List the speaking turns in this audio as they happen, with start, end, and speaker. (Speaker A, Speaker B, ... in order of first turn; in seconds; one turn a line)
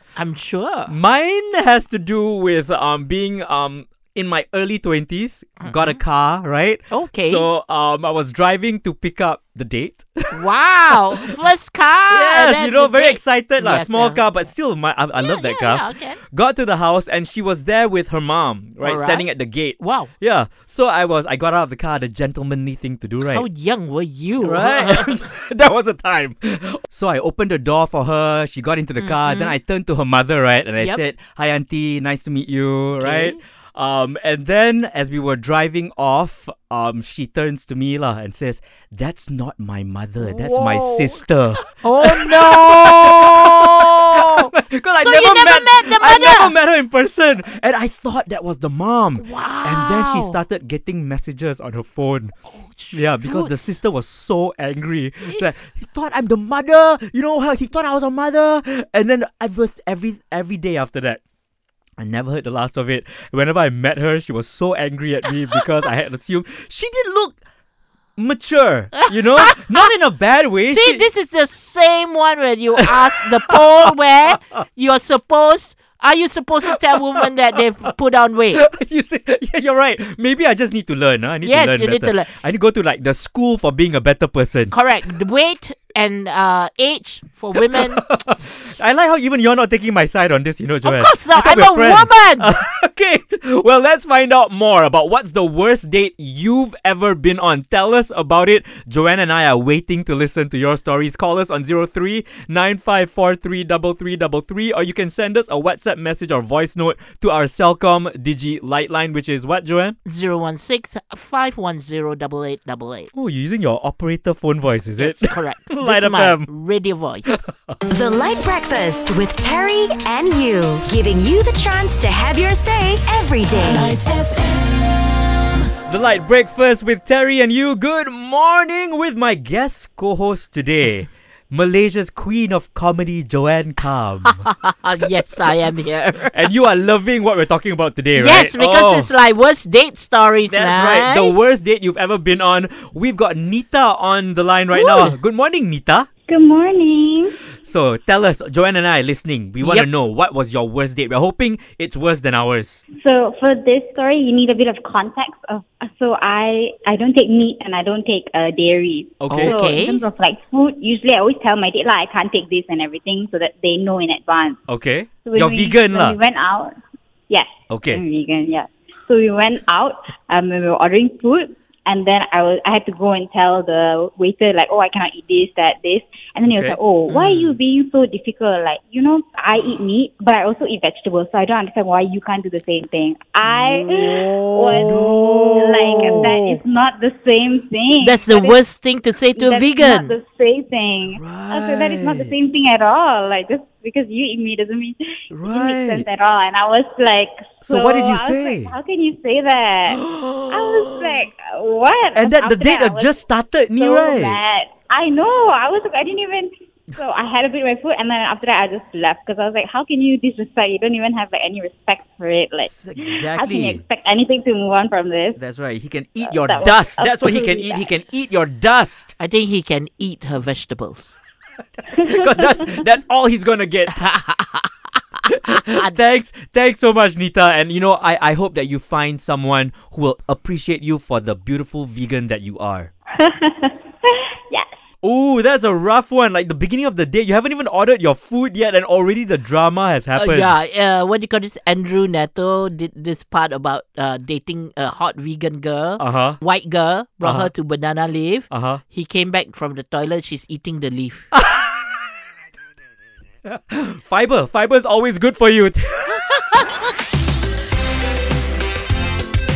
Speaker A: 0.2-0.9
Speaker B: 0.9-11.3
Speaker A: 5.6-6.0
Speaker A: 6.9-7.5
Speaker A: 10.3-14.3
Speaker B: 12.1-23.4
Speaker A: 15.2-16.2
Speaker A: 18.8-19.3
Speaker A: 19.8-20.1
Speaker A: 23.2-25.2
Speaker B: 24.4-52.3
Speaker A: 29.0-29.5
Speaker A: 33.0-33.4
Speaker A: 40.2-46.5
Speaker A: 49.2-50.4
Speaker A: 52.5-53.6
Speaker B: 52.9-61.2
Speaker B: 62.0-67.4
Speaker B: 68.2-71.0
Speaker A: 69.0-69.9
Speaker A: 70.7-78.6
Speaker B: 73.5-73.9
Speaker B: 78.5-84.7
Speaker A: 81.4-82.3
Speaker A: 84.7-88.0
Speaker B: 87.6-110.0
Speaker A: 90.8-92.5
Speaker A: 110.1-113.1
Speaker B: 113.1-116.5
Speaker A: 115.0-117.3
Speaker B: 117.2-117.8
Speaker C: 117.9-124.6
Speaker B: 125.9-134.4
Speaker A: 134.3-136.4
Speaker B: 136.3-139.1
Speaker A: 138.1-141.3
Speaker B: 140.5-146.1
Speaker A: 144.8-145.1
Speaker D: 146.3-147.4
Speaker B: 147.6-152.8
Speaker D: 153.0-164.6
Speaker B: 159.2-159.5
Speaker A: 159.3-160.1
Speaker B: 164.7-166.2
Speaker D: 165.2-166.8
Speaker D: 167.3-188.6
Speaker B: 167.7-168.0
Speaker B: 176.5-176.8
Speaker A: 177.1-177.6
Speaker B: 183.4-184.2
Speaker A: 184.1-186.6
Speaker B: 184.8-186.4
Speaker A: 188.0-190.2
Speaker D: 189.3-203.2
Speaker B: 191.1-192.3
Speaker B: 195.3-196.1
Speaker B: 197.6-198.7
Speaker B: 199.9-201.2
Speaker B: 202.1-204.4
Speaker D: 203.8-215.4
Speaker B: 212.6-213.8
Speaker B: 215.4-219.1
Speaker D: 216.2-217.9
Speaker A: 219.2-221.1
Speaker B: 221.9-224.0
Speaker A: 223.9-224.7
Speaker A: 225.2-225.9
Speaker B: 225.3-232.9
Speaker D: 233.2-233.7
Speaker B: 235.0-240.6
Speaker A: 240.2-251.3
Speaker B: 246.0-246.4
Speaker B: 247.2-247.5
Speaker B: 248.5-248.8
Speaker B: 251.3-251.7
Speaker B: 253.4-256.3